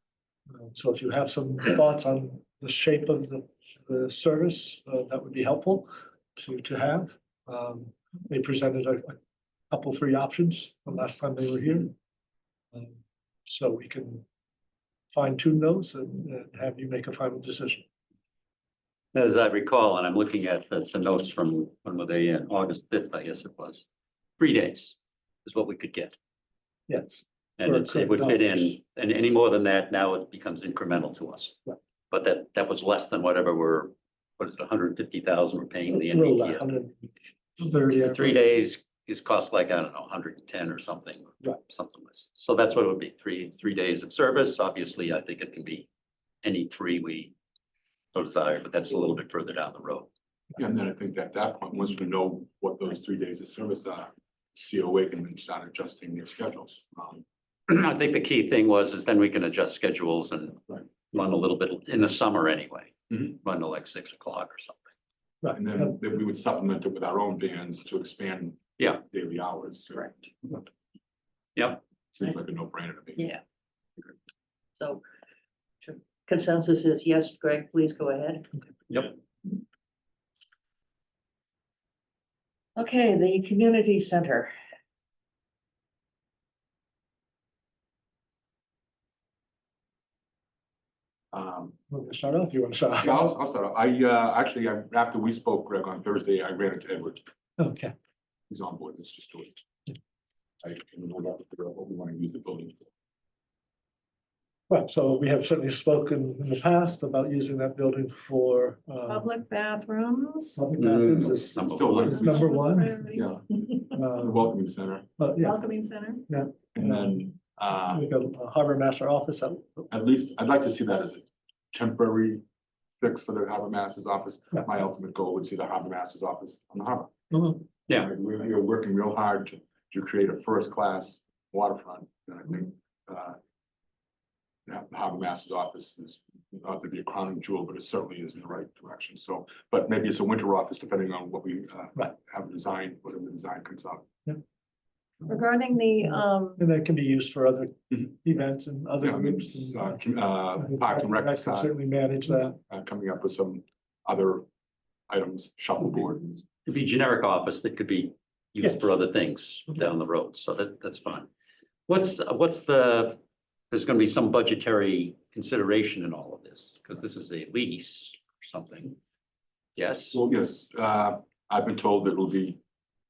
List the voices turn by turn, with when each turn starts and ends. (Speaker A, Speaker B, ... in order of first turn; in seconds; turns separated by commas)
Speaker A: 0.5-9.2, Speaker A: 9.7-12.0, Speaker A: 12.7-14.2, Speaker A: 15.1-17.9, Speaker B: 19.1-23.9, Speaker B: 24.4-26.2, Speaker A: 26.9-28.8, Speaker B: 27.6-31.6, Speaker B: 32.1-36.6, Speaker A: 36.0-38.4, Speaker B: 37.9-45.9, Speaker B: 46.4-47.3, Speaker B: 48.1-50.1, Speaker C: 50.6-57.2, Speaker B: 57.7-64.8, Speaker A: 65.4-66.0, Speaker C: 65.6-70.1, Speaker B: 71.6-71.8, Speaker C: 72.1-73.3, Speaker D: 74.8-75.0, Speaker D: 75.8-78.5, Speaker B: 78.9-79.1, Speaker D: 82.8-84.5, Speaker C: 91.3-91.8, Speaker A: 91.9-93.3, Speaker C: 93.0-97.2, Speaker A: 97.6-97.9, Speaker C: 98.5-99.6, Speaker C: 100.6-102.9, Speaker A: 104.7-109.3, Speaker E: 109.1-110.6, Speaker A: 110.6-113.1, Speaker B: 110.8-112.3, Speaker C: 111.7-112.5, Speaker E: 112.3-113.8, Speaker C: 113.1-115.1, Speaker A: 113.9-114.5, Speaker A: 115.2-115.6, Speaker E: 115.4-116.2, Speaker A: 116.3-117.3, Speaker C: 116.8-118.1, Speaker A: 117.9-119.9, Speaker C: 119.9-122.4, Speaker C: 123.0-127.2, Speaker C: 127.9-133.4, Speaker C: 134.7-144.1, Speaker E: 145.3-146.6, Speaker A: 146.6-150.0, Speaker C: 149.0-151.7, Speaker A: 150.6-152.6, Speaker C: 152.7-154.5, Speaker C: 155.1-156.4, Speaker B: 156.7-161.3, Speaker B: 161.9-163.2, Speaker B: 163.7-169.0, Speaker B: 169.8-170.2, Speaker C: 170.1-172.6